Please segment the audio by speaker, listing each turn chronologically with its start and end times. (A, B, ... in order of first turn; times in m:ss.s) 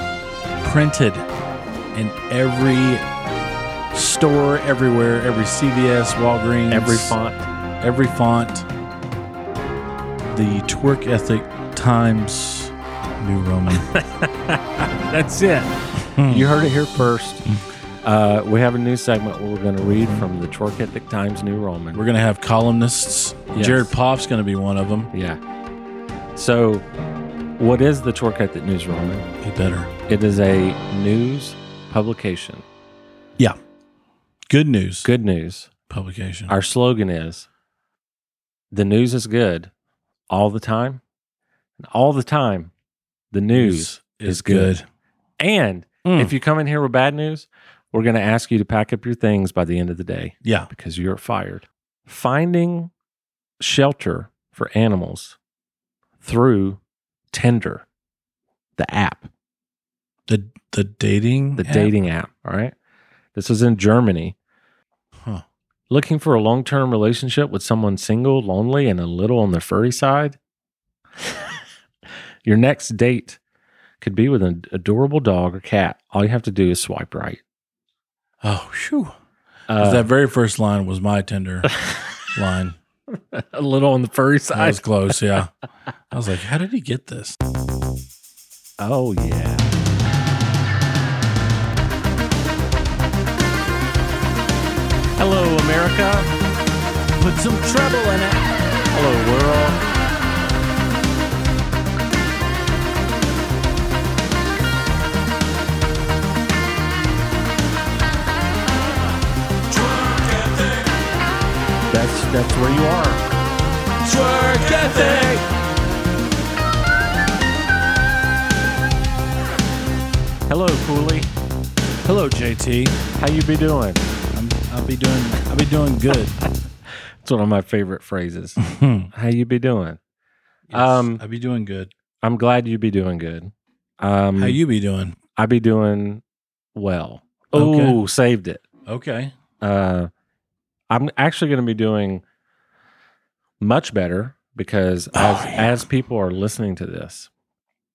0:00.6-0:01.3 A
0:01.9-0:03.0 A
0:03.9-0:07.2 A
0:06.7-0:07.4 B
0:07.8-0:08.7 A
0:10.3-0:13.9 A
0:13.7-0:17.4 B
0:16.2-0:16.5 A
0:18.0-0:22.0 B
0:21.9-0:25.1 A
0:23.5-0:23.9 B
0:25.1-0:25.4 B
0:26.4-0:26.8 B
0:27.6-0:29.3 B
0:29.4-0:29.9 A
0:30.1-0:32.6 B
0:34.5-0:35.1 A
0:35.0-0:35.7 B
0:35.9-0:36.5 A
0:36.5-0:37.5 B
0:38.7-0:39.7 B
0:40.3-0:41.0 B
0:41.8-0:42.7 B
0:43.3-0:44.8 B
0:43.5-0:44.8 A
0:45.4-0:52.9 B
0:46.0-0:46.3 A
0:50.4-0:50.7 A
0:53.6-0:55.4 B
0:56.2-0:56.8 B
0:57.3-0:57.8 B
0:58.8-0:59.3 B
1:00.3-1:01.9 A
1:01.6-1:02.8 B
1:03.4-1:04.4 B
1:05.9-1:10.4 B
1:11.2-1:11.5 B
1:12.4-1:13.4 B
1:14.0-1:17.4 B
1:18.4-1:19.1 A
1:19.7-1:20.1 B
1:19.8-1:21.7 A
1:21.7-1:22.1 B
1:22.3-1:22.8 A
1:23.1-1:25.2 B
1:24.5-1:25.5 A
1:26.1-1:27.4 A
1:28.8-1:29.7 B
1:35.2-1:36.3 B
1:37.2-1:38.4 A
1:38.9-1:39.8 B
1:50.1-1:50.6 A
1:51.9-1:53.2 B
1:54.0-1:55.5 A
2:00.5-2:01.3 B
2:02.0-2:03.0 A
2:03.2-2:04.1 B
2:04.3-2:06.4 A
2:07.2-2:08.6 B
2:08.6-2:09.1 A
2:09.1-2:10.0 B
2:10.7-2:11.9 A
2:10.7-2:11.2 B
2:12.2-2:14.6 B
2:14.4-2:15.2 A
2:15.4-2:16.2 B
2:16.8-2:18.6 B
2:17.5-2:18.0 A
2:18.9-2:19.3 A
2:19.6-2:20.1 B
2:20.9-2:22.2 B
2:23.6-2:27.3 B
2:25.2-2:25.7 A